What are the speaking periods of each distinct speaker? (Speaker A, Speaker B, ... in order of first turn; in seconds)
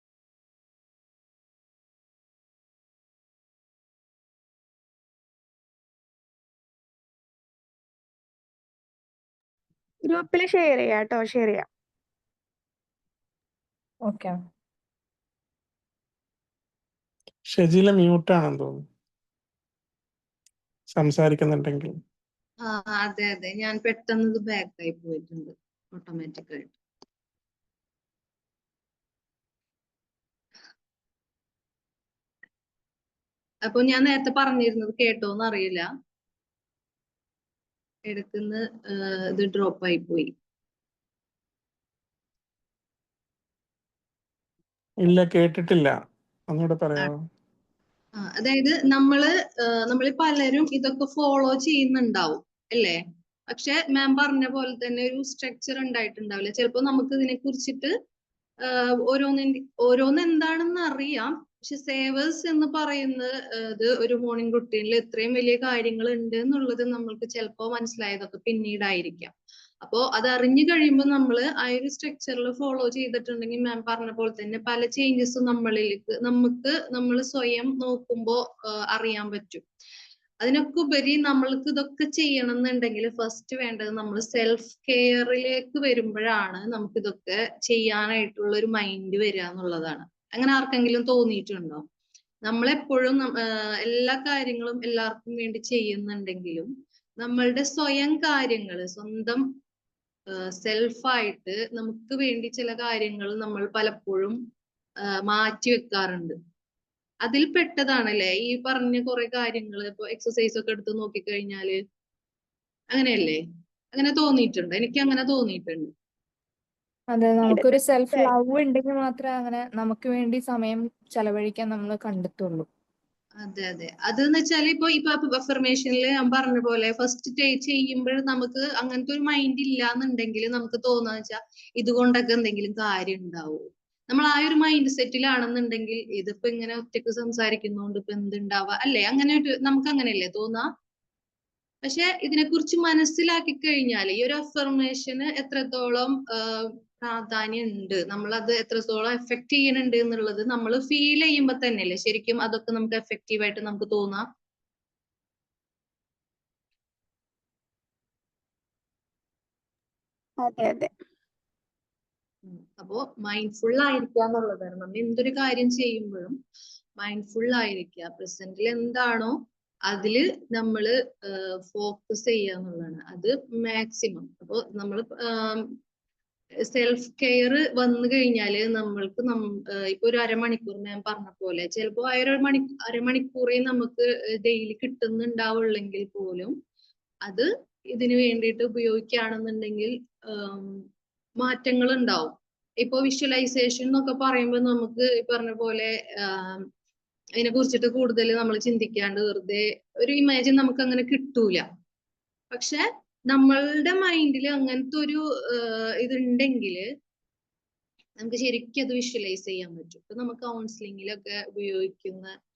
Speaker A: 10.1-11.7, 117.5-118.3, 160.4-160.9
Speaker B: 14.1-14.3, 117.1-122.7
Speaker C: 17.4-18.8, 20.9-22.0, 45.0-45.9, 46.5-47.2
Speaker D: 22.6-26.7, 33.6-35.9, 38.1-40.3, 48.2-57.9, 58.6-79.6, 80.4-91.8, 92.4-99.5, 100.3-104.4, 105.0-106.3, 107.2-111.8, 112.9-113.4, 113.9-115.9, 123.4-140.7, 141.8-154.2, 162.4-166.4, 167.0-175.7, 176.6-186.5, 187.2-190.8, 191.4-196.7, 197.4-201.7, 202.5-206.8, 208.2-212.3